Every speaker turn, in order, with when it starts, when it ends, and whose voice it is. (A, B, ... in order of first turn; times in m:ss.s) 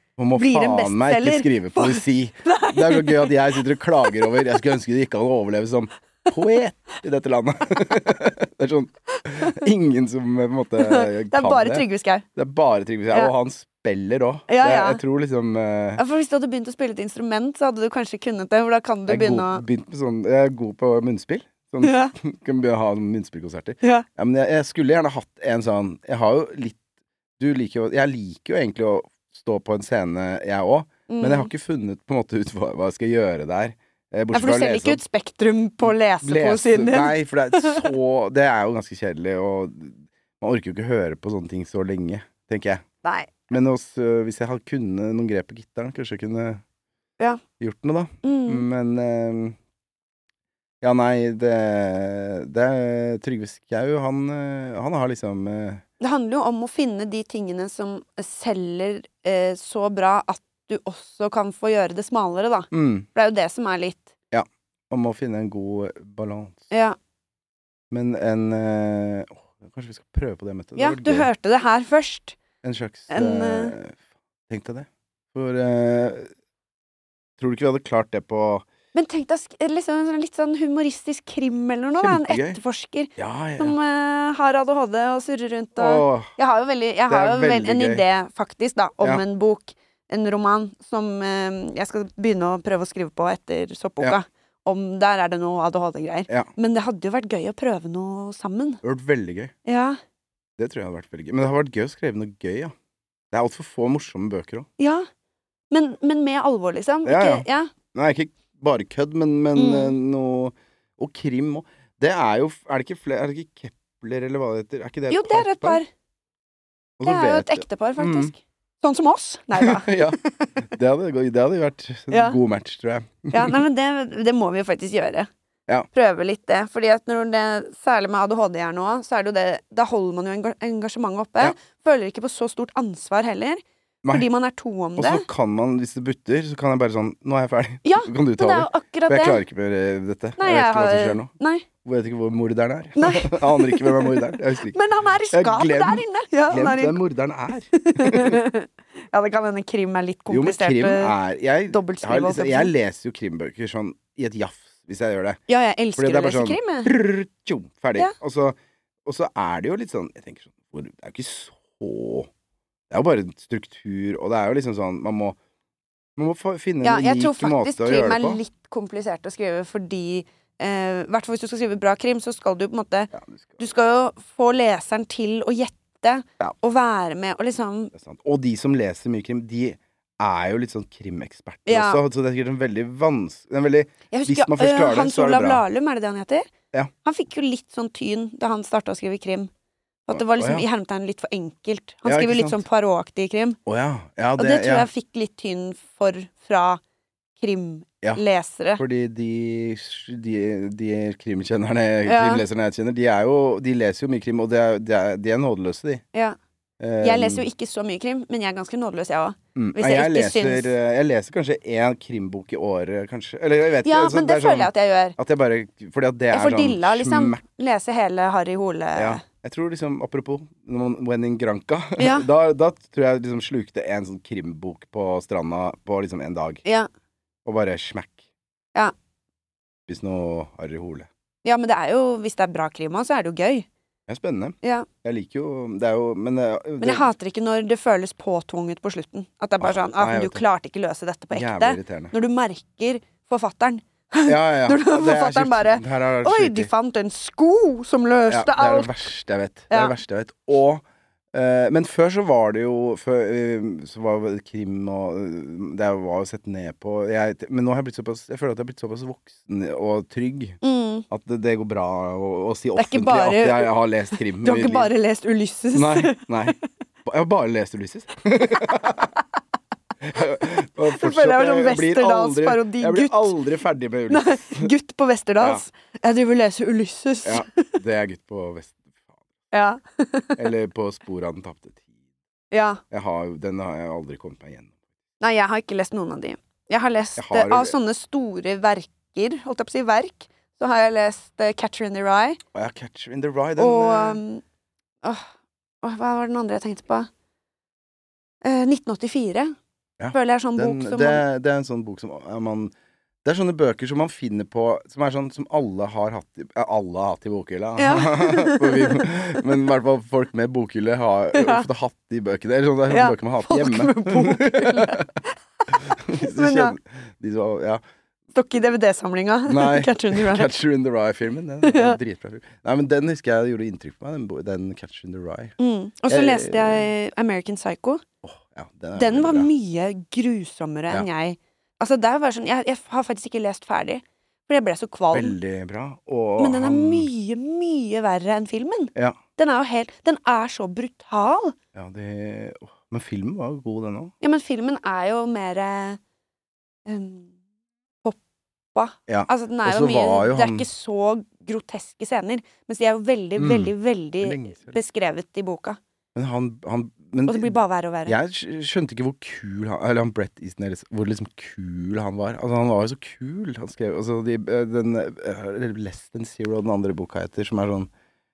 0:00.2-0:16.0 A
0:00.4-0:04.5 B
0:10.8-0:12.2 B
0:14.5-0:15.0 B
0:16.0-0:19.6 B
0:19.1-0:26.8 A
0:21.8-0:22.1 B
0:27.4-0:35.0 A
0:31.1-0:31.5 B
0:34.3-0:37.9 B
0:35.8-0:42.8 A
0:43.0-0:43.5 B
0:43.5-0:46.6 A
0:47.6-0:49.6 A
0:48.2-0:48.7 B
0:50.8-0:55.8 A
0:56.0-1:04.1 B
1:02.7-1:03.1 A
1:04.3-1:06.6 A
1:06.7-1:07.0 B
1:07.9-1:11.3 A
1:10.8-1:12.4 B
1:12.6-1:16.3 A
1:13.1-1:13.8 B
1:17.4-1:18.7 A
1:18.9-1:38.8 B
1:22.0-1:22.6 A
1:23.2-1:23.8 A
1:25.8-1:26.3 A
1:27.1-1:28.0 A
1:38.8-1:39.5 A
1:39.6-1:40.0 B
1:40.6-1:42.7 A
1:43.3-1:44.7 A
1:44.8-1:45.1 B
1:45.7-1:47.7 B
1:47.0-1:55.8 A
1:49.6-1:50.0 B
1:55.1-1:55.9 B
1:57.0-1:58.3 A
1:57.0-2:00.6 B
1:59.6-2:03.6 A
2:02.1-2:02.4 B
2:03.3-2:05.3 B
2:05.9-2:15.2 B
2:15.0-2:21.3 A
2:17.8-2:19.4 B
2:20.4-2:21.7 B
2:21.8-2:24.8 A
2:23.0-2:27.0 B
2:25.3-2:28.4 A
2:27.8-2:31.2 B
2:30.3-2:35.4 A
2:31.7-2:32.7 B
2:35.5-2:36.9 B
2:36.0-2:42.3 A
2:42.9-2:45.4 A
2:46.2-2:48.4 A
2:46.8-2:57.9 B
2:53.1-2:53.6 A
2:57.9-3:05.6 A
3:01.7-3:02.0 B
3:04.1-3:06.5 B
3:07.0-3:09.5 B
3:10.1-3:13.6 B
3:10.1-3:10.6 A
3:12.0-3:12.6 A
3:13.7-3:14.9 A
3:14.4-3:16.8 B
3:17.4-3:18.8 B
3:18.8-3:26.0 A
3:22.1-3:22.4 B
3:26.8-3:27.4 A
3:27.0-3:30.7 B
3:29.6-3:37.4 A
3:33.8-3:35.2 B
3:36.3-3:39.2 B
3:39.0-3:46.6 A
3:42.0-3:42.3 B
3:47.4-3:48.2 A
3:49.9-3:51.1 A
3:51.4-3:53.7 B
3:54.1-3:57.1 A
3:54.6-3:54.9 B
3:56.8-4:09.1 B
3:59.6-4:00.4 A
4:01.3-4:02.1 A
4:04.3-4:06.7 A
4:08.3-4:24.9 A
4:09.7-4:10.0 B
4:20.6-4:21.0 B
4:22.8-4:23.7 B
4:24.4-4:26.5 B
4:25.7-4:29.1 A
4:30.0-4:34.7 A
4:30.9-4:33.4 B
4:34.1-4:37.8 B
4:37.2-4:39.2 A
4:39.5-4:40.5 B
4:40.4-4:41.9 A
4:42.5-4:42.8 B
4:42.9-4:44.8 A
4:45.2-4:52.4 B
4:47.2-4:47.8 A
4:52.5-4:54.2 A
4:53.6-4:54.4 B
4:55.8-4:57.1 B
4:58.4-4:59.6 B
5:00.0-5:02.7 A
5:00.1-5:01.2 B
5:03.2-5:15.1 A
5:07.8-5:09.1 B
5:11.3-5:11.7 B
5:12.9-5:16.8 B
5:15.7-5:17.8 A
5:18.3-5:20.5 B
5:19.5-5:25.6 A
5:21.6-5:22.0 B
5:25.6-5:28.0 B
5:26.1-5:26.9 A
5:28.2-5:29.5 A
5:29.0-5:35.4 B
5:35.1-5:37.1 A
5:36.4-5:41.6 B
5:41.7-5:44.1 A
5:44.2-5:46.0 B
5:46.9-5:47.3 B
5:48.7-5:55.8 B
5:49.1-5:50.7 A
5:53.4-5:54.8 A
5:56.2-5:57.6 A
5:57.3-5:58.2 B
5:58.1-6:07.9 A